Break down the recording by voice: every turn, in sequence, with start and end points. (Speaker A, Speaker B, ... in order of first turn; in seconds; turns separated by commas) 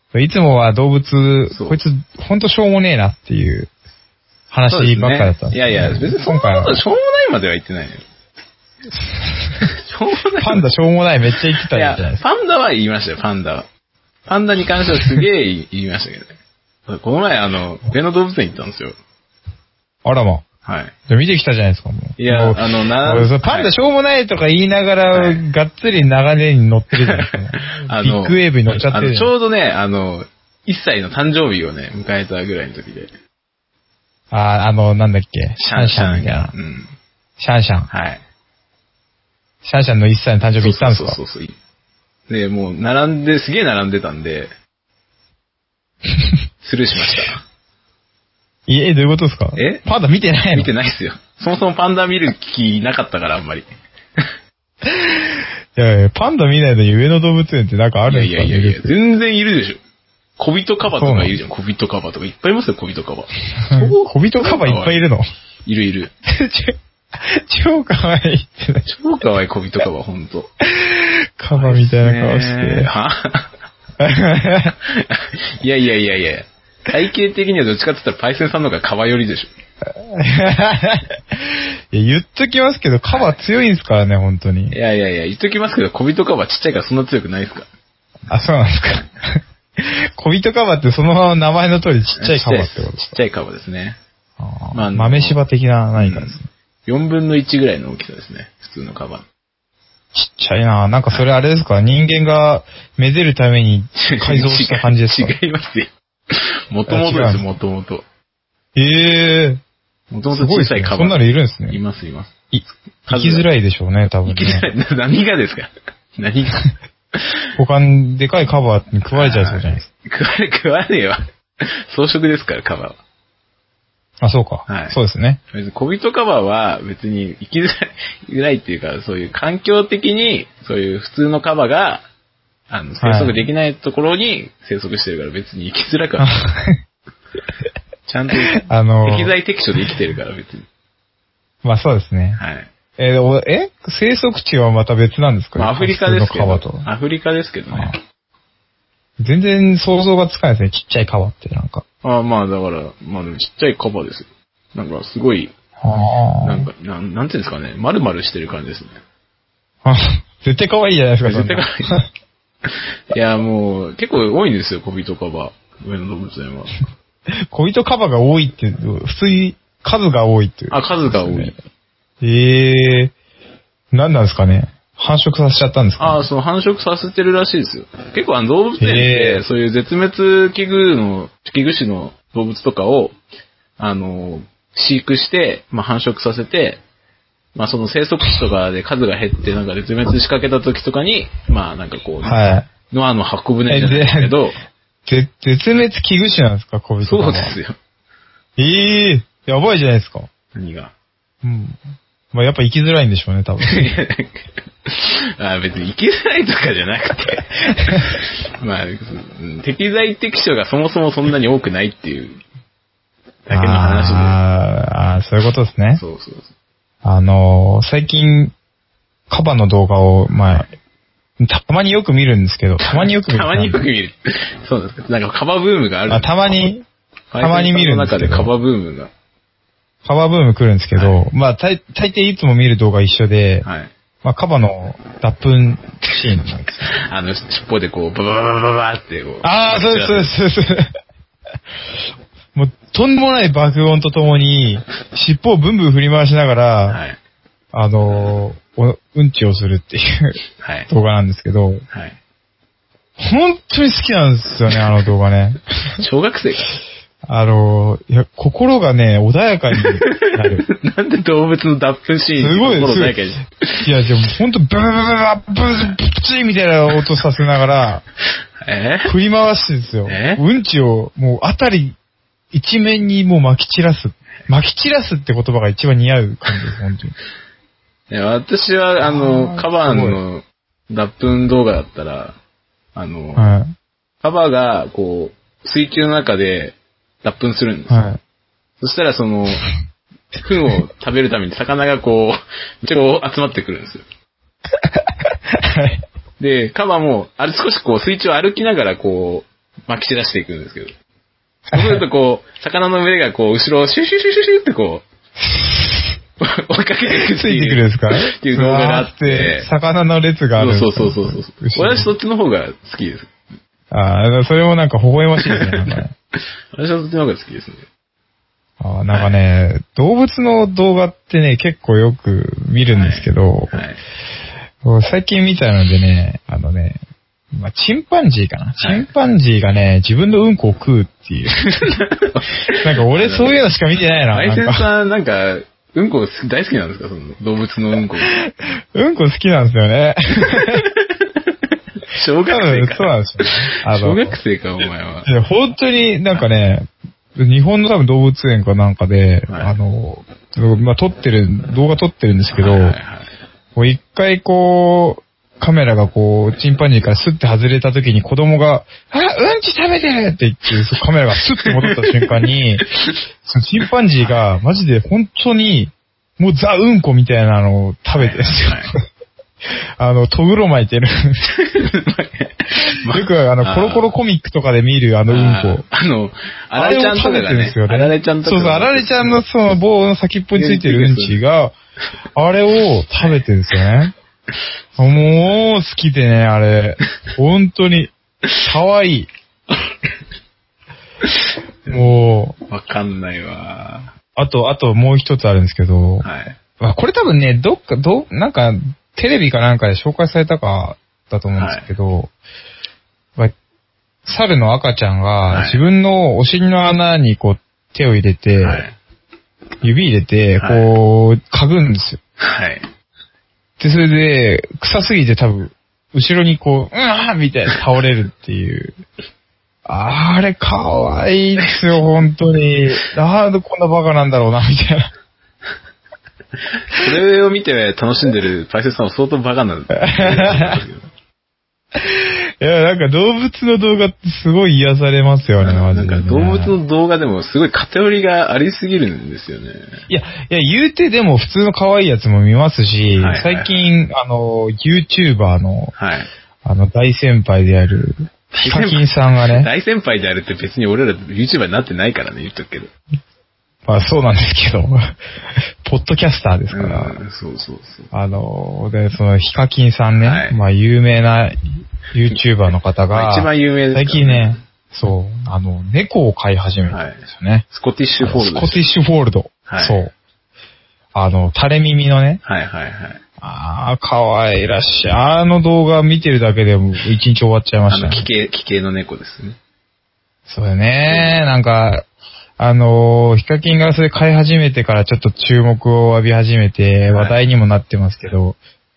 Speaker A: 0.1-3.7, Speaker B: 1.5-1.8, Speaker A: 4.5-6.8, Speaker B: 4.7-8.0, Speaker A: 8.9-9.7, Speaker B: 9.6-10.7, Speaker A: 10.4-12.2, Speaker B: 11.7-13.7, Speaker B: 14.3-16.4, Speaker B: 16.9-18.9, Speaker A: 20.1-20.4, Speaker B: 20.6-20.9, Speaker A: 21.1-29.3, Speaker B: 22.2-23.8, Speaker B: 25.1-25.5, Speaker B: 27.0-33.1, Speaker A: 34.3-36.5, Speaker B: 35.6-36.9, Speaker A: 37.4-37.9, Speaker B: 37.9-38.2, Speaker A: 39.6-41.2, Speaker B: 40.6-41.5, Speaker B: 42.3-44.5, Speaker A: 46.1-46.4, Speaker B: 46.6-47.4, Speaker A: 47.0-47.2, Speaker A: 48.7-50.7, Speaker B: 49.6-49.9, Speaker B: 50.5-53.7, Speaker A: 54.8-58.9, Speaker B: 58.1-59.8, Speaker B: 60.4-65.0, Speaker A: 60.9-61.4, Speaker A: 63.7-65.2, Speaker B: 65.7-66.1, Speaker A: 66.2-68.8, Speaker B: 68.9-70.5, Speaker A: 70.6-72.9, Speaker B: 71.5-73.5, Speaker A: 74.0-74.8, Speaker B: 74.8-79.5, Speaker A: 79.9-84.8, Speaker B: 83.1-83.4, Speaker B: 84.7-87.7, Speaker A: 88.3-93.2, Speaker B: 92.2-94.0, Speaker A: 94.4-96.5, Speaker B: 94.7-95.4, Speaker B: 96.0-99.2, Speaker A: 100.1-105.3, Speaker B: 104.0-108.0, Speaker A: 106.9-107.5, Speaker A: 108.8-109.6, Speaker B: 110.1-112.3, Speaker A: 110.3-111.8, Speaker A: 112.5-114.7, Speaker B: 113.0-113.5, Speaker B: 114.2-117.4, Speaker A: 117.6-119.9, Speaker B: 119.1-123.0, Speaker A: 124.2-125.4, Speaker B: 124.7-125.0, Speaker B: 125.5-132.0, Speaker B: 132.7-136.4, Speaker A: 133.0-133.4, Speaker A: 136.2-136.8, Speaker B: 138.1-140.7, Speaker A: 138.5-139.3, Speaker A: 141.6-142.4, Speaker B: 142.4-142.7, Speaker A: 143.0-146.9, Speaker B: 145.6-147.9, Speaker A: 149.2-151.8, Speaker B: 152.0-155.5, Speaker A: 155.8-156.7, Speaker B: 156.4-159.0, Speaker A: 159.8-162.0, Speaker B: 161.2-162.0, Speaker B: 162.7-166.8, Speaker A: 167.5-171.5, Speaker B: 170.7-171.6, Speaker A: 172.2-173.1, Speaker A: 173.9-176.2, Speaker B: 176.0-183.2, Speaker A: 178.8-179.4, Speaker B: 183.8-186.8, Speaker B: 187.6-194.6, Speaker A: 192.2-192.7, Speaker A: 193.7-194.3, Speaker A: 195.1-197.6, Speaker B: 197.0-197.8, Speaker A: 198.6-200.3, Speaker B: 200.6-200.9, Speaker A: 201.4-201.8, Speaker A: 202.3-203.9, Speaker B: 203.6-212.4, Speaker A: 207.8-208.1, Speaker B: 213.5-214.4, Speaker A: 213.5-216.0, Speaker B: 215.9-216.5, Speaker A: 217.0-218.5, Speaker A: 219.3-220.7, Speaker A: 221.4-223.8, Speaker B: 222.8-226.7, Speaker A: 226.1-226.8, Speaker B: 227.3-229.1, Speaker A: 227.4-228.5, Speaker A: 230.1-233.7, Speaker B: 230.9-231.2, Speaker B: 233.6-233.9, Speaker A: 234.2-236.9, Speaker B: 236.9-240.3, Speaker A: 239.4-240.9, Speaker A: 242.6-247.0, Speaker B: 246.9-247.2, Speaker A: 247.7-250.4, Speaker B: 250.6-250.9, Speaker A: 250.9-251.8, Speaker B: 251.9-252.2, Speaker A: 253.2-256.0, Speaker B: 256.0-256.8, Speaker A: 257.3-260.7, Speaker B: 259.8-263.9, Speaker A: 262.4-263.2, Speaker A: 263.8-268.1, Speaker B: 268.6-269.1, Speaker A: 269.1-272.0, Speaker B: 270.1-270.4, Speaker A: 272.5-277.1, Speaker B: 278.1-282.4, Speaker A: 279.0-280.2, Speaker B: 282.9-283.5, Speaker A: 283.4-283.7, Speaker B: 284.2-288.1, Speaker A: 287.9-288.2, Speaker B: 288.8-289.7, Speaker B: 290.4-294.0, Speaker A: 294.8-296.0, Speaker B: 296.4-300.9, Speaker A: 301.7-302.0, Speaker B: 301.7-305.1, Speaker A: 305.4-306.2, Speaker B: 306.4-309.7, Speaker A: 307.3-312.1, Speaker B: 310.6-313.3, Speaker A: 313.9-316.1, Speaker B: 315.4-316.0, Speaker B: 316.7-317.9, Speaker A: 318.8-323.8, Speaker B: 319.1-319.4, Speaker B: 322.9-324.0, Speaker A: 324.8-327.0, Speaker A: 327.5-332.0, Speaker B: 328.8-329.1, Speaker B: 331.7-333.6, Speaker A: 332.8-334.9, Speaker B: 334.3-338.4, Speaker A: 338.5-340.9, Speaker B: 340.6-341.3, Speaker B: 342.1-345.3, Speaker A: 342.5-344.4, Speaker A: 345.3-353.0, Speaker B: 349.5-349.8, Speaker B: 352.6-353.3, Speaker A: 353.8-362.9, Speaker B: 361.8-362.3, Speaker A: 363.4-368.9, Speaker B: 364.2-364.5, Speaker B: 368.2-368.9, Speaker A: 370.0-371.4, Speaker B: 371.5-374.1, Speaker A: 373.1-375.9, Speaker B: 375.3-379.4, Speaker A: 376.8-381.7, Speaker B: 380.6-381.4, Speaker A: 382.3-384.1, Speaker B: 383.2-383.4, Speaker B: 385.0-385.6, Speaker A: 385.0-388.1, Speaker A: 388.6-389.3, Speaker B: 391.2-392.1, Speaker A: 391.9-392.6, Speaker B: 392.7-394.1, Speaker A: 394.4-396.3, Speaker B: 396.2-396.6, Speaker A: 396.8-402.3, Speaker B: 401.6-401.9, Speaker A: 404.3-408.8, Speaker B: 405.5-405.8, Speaker B: 408.6-408.9, Speaker A: 409.8-412.2, Speaker B: 410.6-410.9, Speaker B: 412.4-412.9, Speaker A: 413.8-419.0, Speaker A: 419.9-425.1, Speaker B: 421.6-422.0, Speaker B: 426.8-431.1, Speaker A: 430.0-430.8, Speaker A: 431.9-436.8, Speaker B: 435.6-440.0, Speaker A: 440.1-445.9, Speaker B: 443.2-443.7, Speaker B: 446.0-446.3, Speaker A: 446.6-449.7, Speaker B: 448.5-452.9, Speaker A: 453.9-455.0, Speaker A: 455.8-457.2, Speaker B: 456.7-458.1, Speaker A: 458.1-467.6, Speaker B: 460.2-460.6, Speaker B: 463.1-464.6, Speaker B: 466.9-468.8, Speaker A: 468.2-470.1, Speaker B: 469.7-470.0, Speaker A: 471.1-472.4, Speaker B: 472.4-473.2, Speaker A: 473.4-478.3, Speaker B: 477.9-479.6, Speaker A: 480.5-482.1, Speaker B: 481.1-481.5, Speaker A: 482.6-488.6, Speaker B: 487.1-487.4